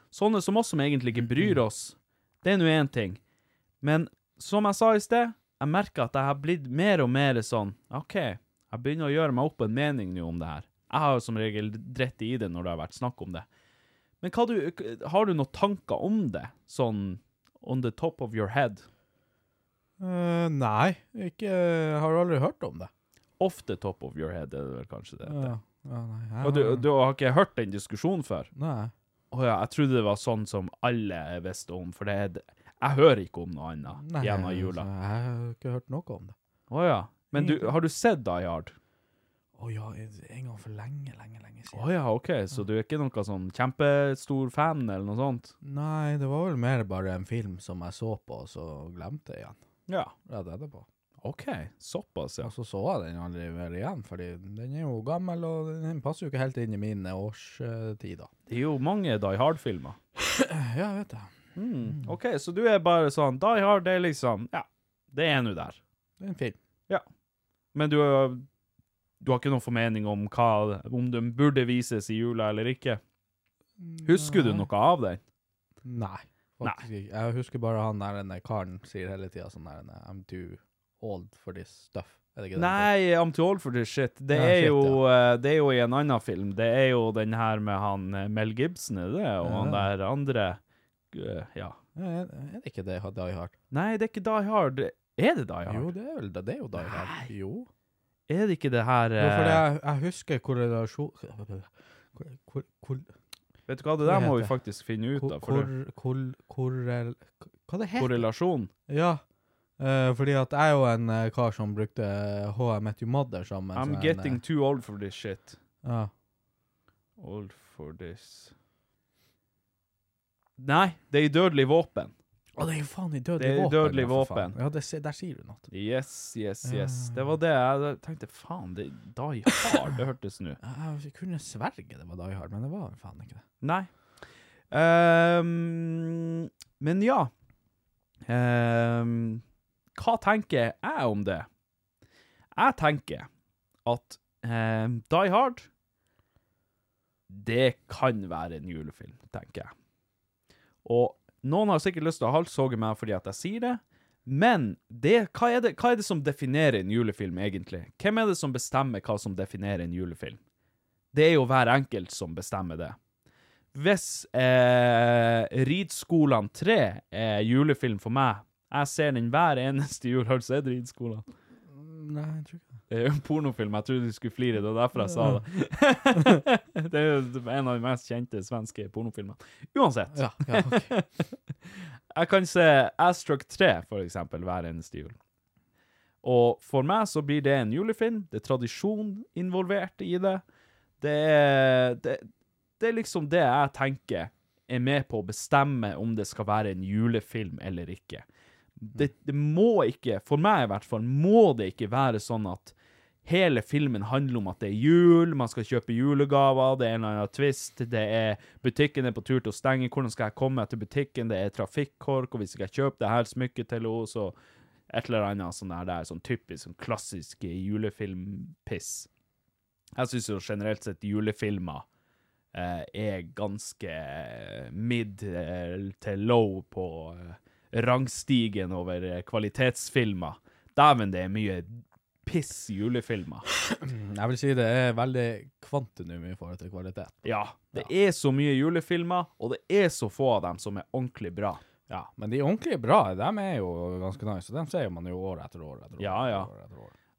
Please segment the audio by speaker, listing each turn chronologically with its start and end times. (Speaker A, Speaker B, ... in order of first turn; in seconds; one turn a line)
Speaker A: 0.1-3.2
Speaker B: 1.2-1.6
Speaker A: 3.8-13.4
Speaker A: 14.2-18.8
Speaker B: 20.0-22.9
Speaker A: 23.4-25.5
Speaker B: 25.2-26.9
Speaker A: 26.4-28.5
Speaker B: 28.5-28.9
Speaker A: 29.3-34.9
Speaker B: 34.0-36.3
Speaker A: 36.7-38.7
Speaker B: 37.3-37.7
Speaker B: 39.6-41.9
Speaker A: 41.7-45.5
Speaker B: 45.6-49.6
Speaker A: 49.9-50.1
Speaker B: 50.3-50.9
Speaker A: 51.2-52.5
Speaker B: 52.4-58.3
Speaker A: 58.5-60.0
Speaker B: 60.2-61.3
Speaker A: 61.5-65.8
Speaker B: 66.2-66.6
Speaker A: 67.7-68.4
Speaker A: 69.2-73.0
Speaker B: 73.8-74.7
Speaker A: 74.0-75.2
Speaker B: 75.8-82.9
Speaker A: 82.5-90.6
Speaker B: 84.3-85.0
Speaker B: 89.4-89.9
Speaker A: 91.1-91.8
Speaker B: 92.0-93.5
Speaker A: 93.7-95.9
Speaker B: 95.7-97.7
Speaker A: 96.8-97.3
Speaker A: 98.3-99.6
Speaker B: 99.2-103.1
Speaker A: 103.7-105.7
Speaker B: 104.0-104.5
Speaker B: 105.2-108.2
Speaker A: 108.0-108.7
Speaker B: 108.9-109.2
Speaker B: 109.8-114.4
Speaker A: 113.7-115.6
Speaker B: 115.8-116.1
Speaker A: 117.2-118.5
Speaker A: 120.6-122.1
Speaker B: 122.6-125.7
Speaker A: 123.4-124.5
Speaker A: 125.7-130.6
Speaker B: 126.6-127.2
Speaker B: 129.5-129.8
Speaker B: 130.6-133.4
Speaker A: 133.6-133.9
Speaker A: 134.7-137.3
Speaker A: 138.3-139.4
Speaker A: 139.9-141.5
Speaker A: 142.6-143.3
Speaker A: 143.8-145.7
Speaker A: 147.3-149.7
Speaker A: 150.8-160.4
Speaker A: 161.1-162.9
Speaker A: 163.7-171.2
Speaker B: 171.7-172.8
Speaker A: 172.9-181.3
Speaker B: 175.0-175.4
Speaker B: 176.1-176.4
Speaker B: 180.1-180.9
Speaker A: 182.1-185.1
Speaker A: 186.2-190.4
Speaker A: 191.0-192.2
Speaker A: 192.8-198.2
Speaker A: 198.8-202.7
Speaker A: 203.2-214.3
Speaker A: 214.9-219.1
Speaker A: 219.9-221.8
Speaker A: 222.5-233.4
Speaker B: 233.6-237.9
Speaker A: 237.2-241.6
Speaker B: 241.9-246.9
Speaker A: 246.0-246.5